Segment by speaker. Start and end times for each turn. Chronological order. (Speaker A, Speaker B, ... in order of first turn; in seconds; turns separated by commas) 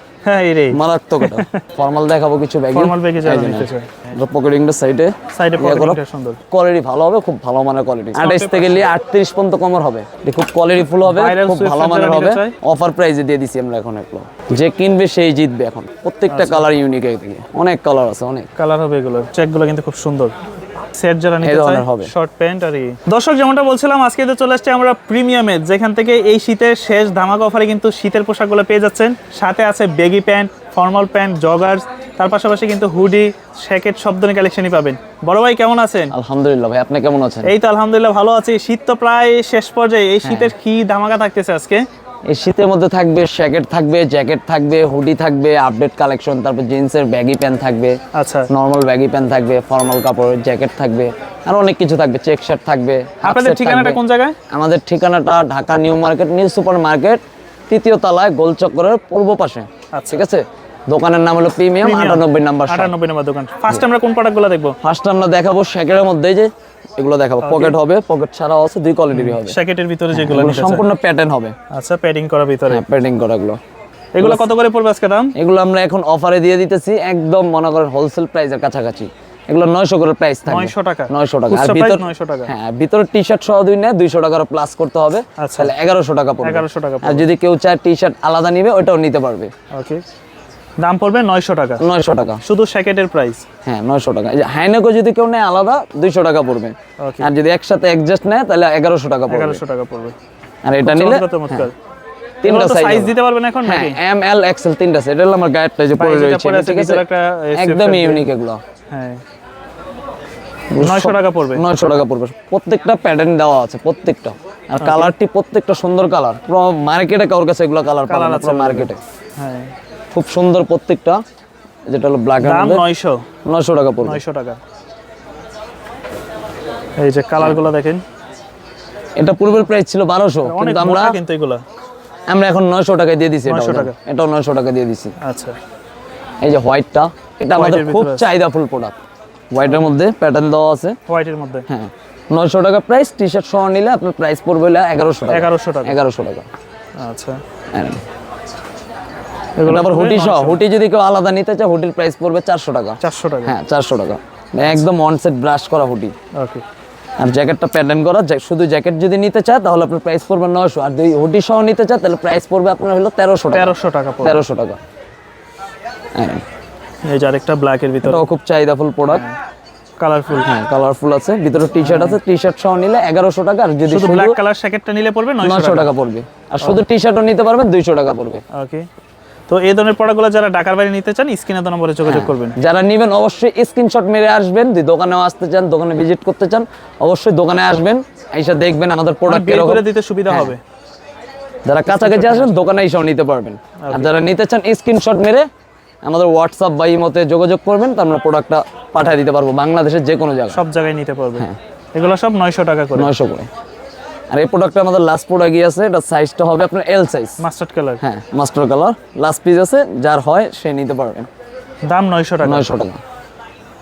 Speaker A: 0.2-1.6, Speaker B: 0.7-6.0, Speaker A: 2.7-4.0, Speaker A: 5.3-6.4, Speaker B: 6.5-18.5, Speaker A: 8.1-8.9, Speaker A: 11.0-12.5, Speaker A: 16.3-16.7, Speaker A: 18.6-20.3, Speaker A: 20.9-36.1, Speaker B: 21.4-22.1, Speaker B: 36.1-37.5, Speaker A: 37.4-41.8, Speaker B: 40.2-40.5, Speaker B: 42.3-48.0, Speaker A: 48.1-48.5, Speaker B: 48.5-54.0, Speaker A: 53.2-54.4, Speaker B: 54.5-62.9, Speaker A: 59.9-60.2, Speaker A: 61.8-64.8, Speaker B: 64.8-69.6, Speaker A: 67.4-67.8, Speaker A: 69.1-70.9, Speaker B: 70.1-71.5, Speaker A: 71.7-72.8, Speaker B: 72.7-73.6, Speaker A: 74.1-75.3, Speaker B: 74.2-74.5, Speaker B: 75.3-89.5, Speaker A: 80.5-82.5, Speaker A: 85.4-85.7, Speaker A: 86.4-87.3, Speaker A: 89.7-90.0, Speaker A: 90.8-91.8, Speaker B: 91.8-92.4, Speaker A: 92.4-93.4, Speaker B: 93.6-99.6, Speaker A: 97.0-97.3, Speaker A: 99.3-100.1, Speaker B: 100.6-101.7, Speaker A: 100.8-101.7, Speaker B: 102.4-107.0, Speaker A: 102.4-104.0, Speaker A: 106.0-108.3, Speaker B: 107.5-108.6, Speaker A: 108.9-109.2, Speaker B: 110.7-119.0, Speaker A: 110.8-111.6, Speaker A: 114.8-115.1, Speaker A: 118.1-119.7, Speaker B: 120.1-121.2, Speaker B: 121.9-122.8, Speaker A: 122.4-123.2, Speaker B: 123.4-124.2, Speaker A: 124.0-124.6, Speaker A: 127.0-128.0, Speaker B: 127.4-127.6, Speaker B: 129.2-131.2, Speaker A: 130.4-131.6, Speaker B: 132.3-135.1, Speaker A: 133.4-133.9, Speaker A: 135.2-135.6, Speaker B: 136.4-138.9, Speaker A: 137.5-138.3, Speaker B: 139.5-140.9, Speaker A: 141.1-141.7, Speaker B: 141.7-146.4, Speaker A: 145.3-146.0, Speaker A: 147.0-147.4, Speaker B: 147.7-148.0, Speaker A: 149.6-150.6, Speaker B: 149.6-156.1, Speaker A: 153.0-153.6, Speaker A: 156.3-156.6, Speaker B: 157.2-164.8, Speaker A: 163.5-164.4, Speaker B: 166.1-166.4, Speaker A: 167.1-168.2, Speaker B: 168.0-169.2, Speaker A: 169.1-169.4, Speaker A: 170.0-170.5, Speaker B: 170.3-174.4, Speaker A: 171.7-172.2, Speaker A: 173.8-175.9, Speaker B: 175.4-178.4, Speaker A: 178.5-178.9, Speaker A: 179.5-182.6, Speaker B: 182.0-190.5, Speaker A: 189.3-190.6, Speaker B: 191.7-195.4, Speaker A: 191.8-192.5, Speaker A: 193.8-194.1, Speaker B: 196.0-200.6, Speaker A: 200.5-203.1, Speaker B: 202.9-203.5, Speaker B: 204.3-207.4, Speaker A: 207.4-208.0, Speaker B: 208.0-211.3, Speaker A: 211.9-212.7, Speaker B: 212.4-213.0